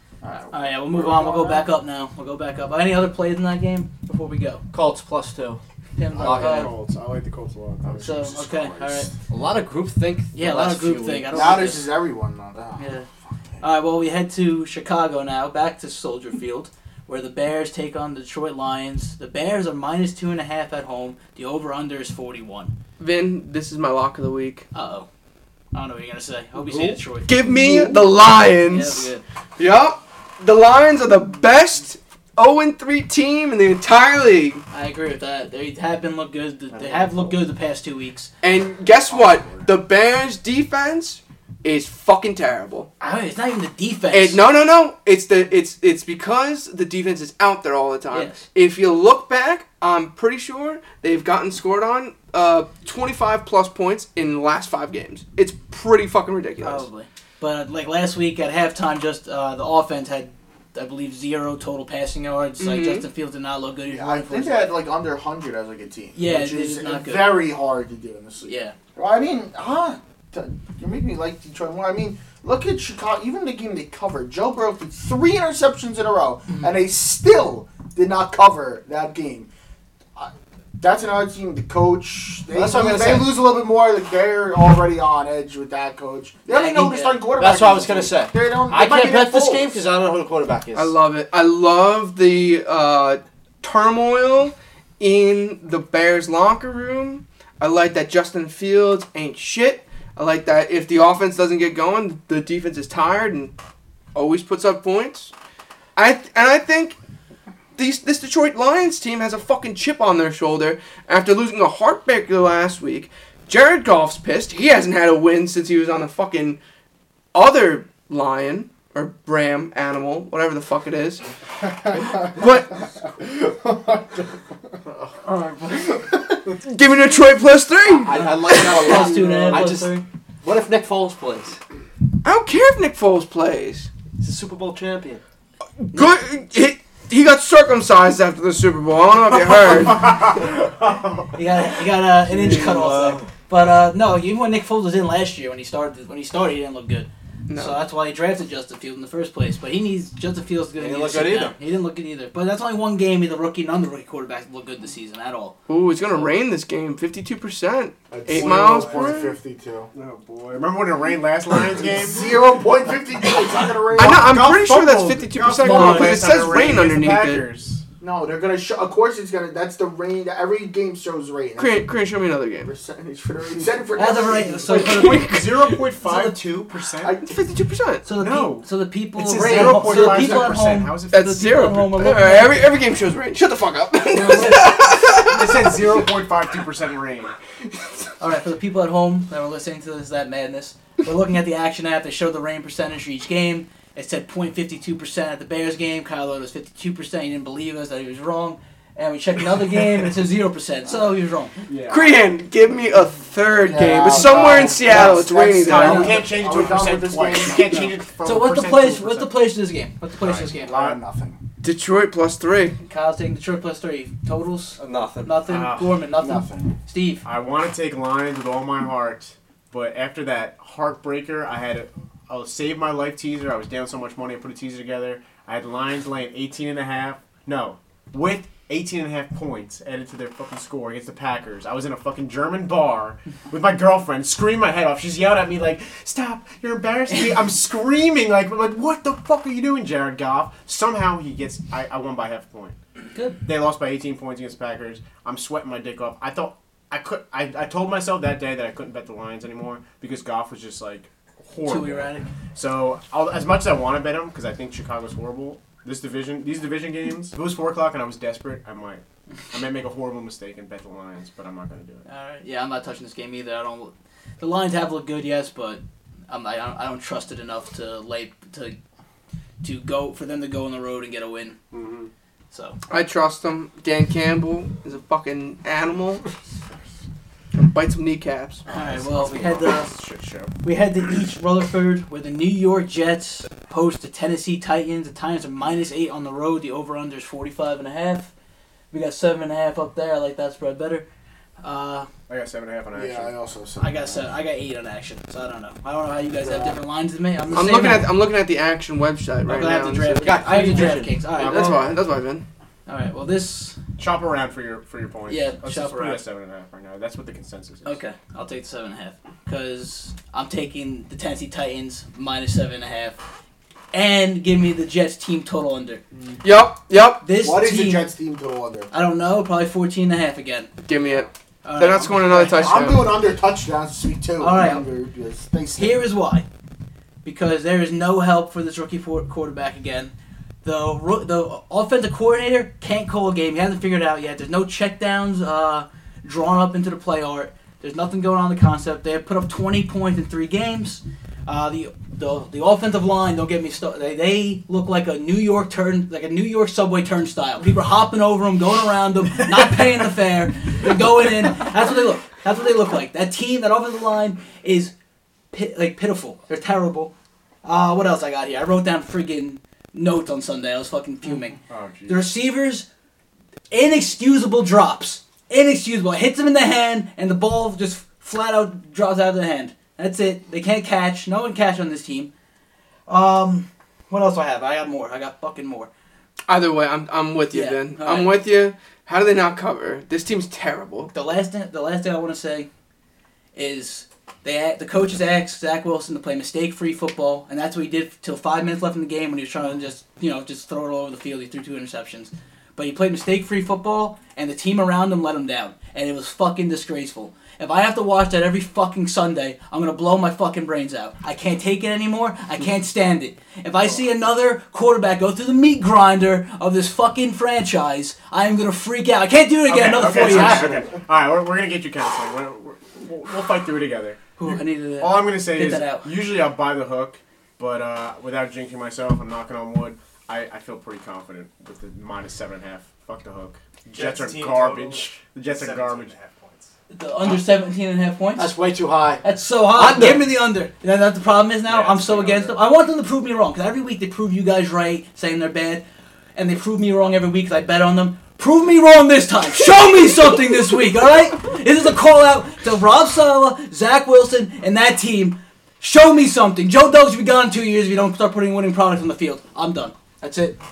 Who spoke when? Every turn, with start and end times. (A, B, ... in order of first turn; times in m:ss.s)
0:00.2-0:01.7 A
0:00.5-0:04.6 B
0:04.7-0:05.6 C
0:06.0-0:06.7 B
0:06.1-0:06.7 C
0:06.2-0:08.2 D
0:07.8-0:09.2 A
0:08.0-0:09.1 B
0:09.3-0:11.7 C
0:10.3-0:11.9 B
0:11.3-0:12.9 A
0:12.8-0:13.1 B
0:13.6-0:22.8 B
0:23.0-0:24.7 E
0:24.7-0:25.1 B
0:25.7-0:27.4 B
0:27.3-0:34.6 E
0:27.5-0:28.0 A
0:28.7-0:29.2 B
0:34.7-0:38.3 B
0:36.7-0:37.4 D
0:38.4-0:42.9 E
0:38.9-0:39.8 A
0:43.0-0:44.4 B
0:44.1-0:56.9 E
0:48.1-0:48.5 B
0:56.6-1:04.7 B
1:02.6-1:03.0 E
1:03.9-1:19.5 A
1:06.1-1:07.4 B
1:08.4-1:08.8 B
1:16.5-1:16.7 B
1:20.2-1:29.7 A
1:22.5-1:23.4 C
1:26.5-1:27.2 B
1:27.3-1:31.0 C
1:30.7-1:43.5 E
1:44.1-1:45.3 E
1:46.0-1:47.0 E
1:47.8-1:56.6 E
1:57.3-2:01.2 E
2:02.2-2:02.8 E
2:03.2-2:04.1 A
2:05.7-2:06.1 A
2:06.6-2:08.3 E
2:07.9-2:11.6 C
2:08.6-2:10.0 B
2:09.1-2:09.7 D
2:12.2-2:13.9 E
2:14.2-2:15.2 C
2:15.8-2:20.3 E
2:19.9-2:21.3 D
2:21.3-2:35.6 B
2:22.2-2:23.3 C
2:27.5-2:27.8 E
2:30.8-2:31.6 C
2:35.7-2:39.3 E
2:38.1-2:39.9 A
2:38.4-2:39.1 D
2:38.6-2:39.1 F
2:39.9-2:42.4 D
2:41.9-2:44.4 A
2:43.9-2:47.5 E
2:44.0-2:47.8 D
2:45.6-2:46.2 B
2:46.4-2:46.8 A
2:48.0-2:52.0 A
2:51.6-2:52.7 E
2:52.6-2:54.7 A
2:54.0-2:56.5 B
2:54.7-2:55.8 E
2:54.7-2:57.2 D
2:57.0-2:57.4 A
2:57.2-2:58.0 E
2:58.0-3:02.6 B
2:58.2-3:01.5 D
2:59.4-3:00.5 A
3:01.1-3:05.7 E
3:04.2-3:04.6 B
3:04.2-3:07.4 D
3:08.2-3:21.5 B
3:21.7-3:22.2 D
3:21.9-3:26.2 E
3:23.6-3:27.9 A
3:25.6-3:29.5 D
3:25.7-3:26.1 B
3:27.6-3:30.8 B
3:30.2-3:31.0 D
3:30.5-3:31.4 A
3:31.6-3:32.8 E
3:32.8-3:37.2 B
3:34.8-3:35.4 C
3:35.5-3:36.0 D
3:36.2-3:36.8 A
3:37.2-4:02.8 D
4:03.4-4:22.0 D
4:11.6-4:12.3 B
4:22.1-4:28.8 B
4:29.6-4:31.6 B
4:31.7-4:32.1 D
4:32.5-4:32.8 B
4:32.9-4:36.2 E
4:37.5-4:38.6 E
4:38.7-4:40.5 D
4:38.7-4:39.9 B
4:40.6-4:48.3 B
4:48.9-4:51.1 B
4:51.6-4:52.1 B
4:52.3-4:53.4 D
4:52.9-4:54.3 A
4:53.8-4:58.2 B
4:56.4-4:56.8 A
4:57.5-5:00.4 E
4:59.5-5:01.9 B
5:00.2-5:01.3 C
5:00.6-5:02.0 D
5:01.3-5:02.4 E
5:02.9-5:03.8 B
5:04.0-5:08.0 D
5:05.3-5:06.2 B
5:07.8-5:13.2 B
5:13.9-5:16.0 B
5:16.1-5:16.4 A
5:16.4-5:17.2 E
5:17.2-5:18.1 B
5:17.3-5:18.9 A
5:18.9-5:20.7 B
5:20.8-5:23.2 E
5:21.6-5:22.9 B
5:22.6-5:26.1 A
5:24.4-5:24.8 B
5:25.8-5:26.5 B
5:27.2-5:54.9 B
5:55.5-5:57.1 B
5:57.6-6:02.9 B
6:01.7-6:02.3 D
6:03.7-6:12.3 B
6:13.1-6:15.9 B
6:16.5-6:21.1 E
6:17.5-6:18.4 B
6:21.1-6:22.7 B
6:23.6-6:50.8 B
6:49.7-7:06.1 D
6:54.4-6:56.1 B
7:03.9-7:06.7 F
7:06.9-7:08.6 B
7:08.4-7:10.4 C
7:09.2-7:15.8 B
7:11.6-7:12.6 D
7:16.4-7:30.6 B